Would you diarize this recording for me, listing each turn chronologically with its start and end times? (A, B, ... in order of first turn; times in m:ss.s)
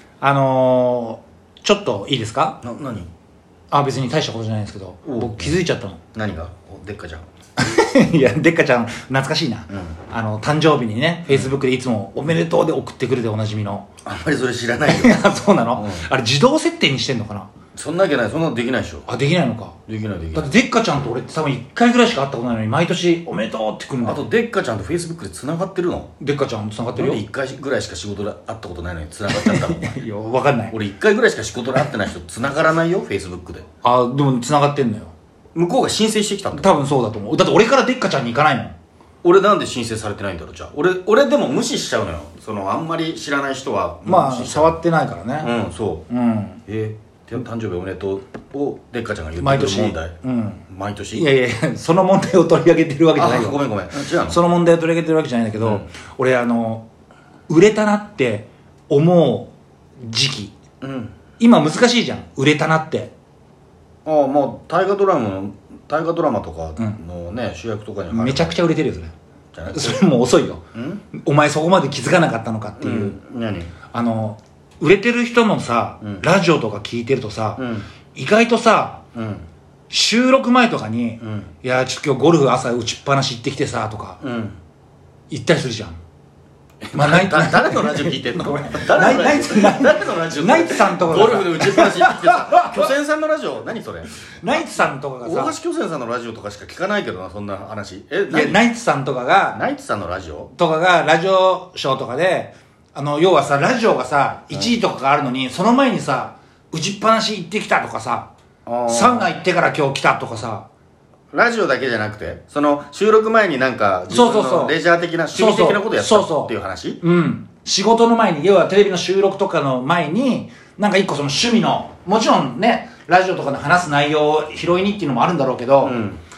0:00.2-0:02.6 A
0:02.6-0:03.1 B
0:03.7-0:06.0 A
0:05.0-0:05.6 B
0:06.1-0:07.3 B
0:07.6-0:13.9 A
0:14.0-0:16.1 B
0:14.9-0:17.5 A
0:17.8-0:19.1 B
0:19.1-0:19.8 A
0:19.9-0:20.5 B
0:20.3-0:24.2 A
0:24.0-0:26.1 B
0:26.2-0:27.2 A
0:26.9-0:30.0 B
0:29.3-0:30.8 A
0:30.7-0:33.7 B
0:33.8-0:35.1 A
0:35.5-0:36.8 B
0:36.5-0:38.8 A
0:39.2-0:44.8 B
0:44.1-0:45.5 A
0:45.4-0:46.1 B
0:46.1-0:46.6 A
0:46.7-0:50.2 B
0:49.4-0:53.6 A
0:50.7-0:51.3 B
0:53.2-0:54.4 B
0:54.2-0:56.9 A
0:55.6-0:55.9 B
0:57.5-1:00.5 A
1:00.8-1:01.1 B
1:01.4-1:03.1 A
1:04.0-1:08.6 B
1:08.1-1:09.1 A
1:09.5-1:10.0 B
1:09.7-1:13.2 A
1:10.7-1:11.0 B
1:12.8-1:13.8 B
1:13.9-1:19.0 A
1:17.6-1:17.9 B
1:19.2-1:19.5 B
1:19.9-1:24.2 A
1:21.2-1:21.5 B
1:24.2-1:24.6 B
1:25.3-1:26.0 A
1:26.8-1:38.6 B
1:26.9-1:32.9 A
1:34.4-1:35.6 A
1:38.3-1:39.6 A
1:39.5-1:40.5 B
1:40.5-1:48.3 A
1:48.7-1:49.3 B
1:48.9-1:50.7 A
1:51.3-1:57.0 B
1:54.1-1:54.8 A
1:55.3-2:06.0 A
2:05.8-2:06.2 B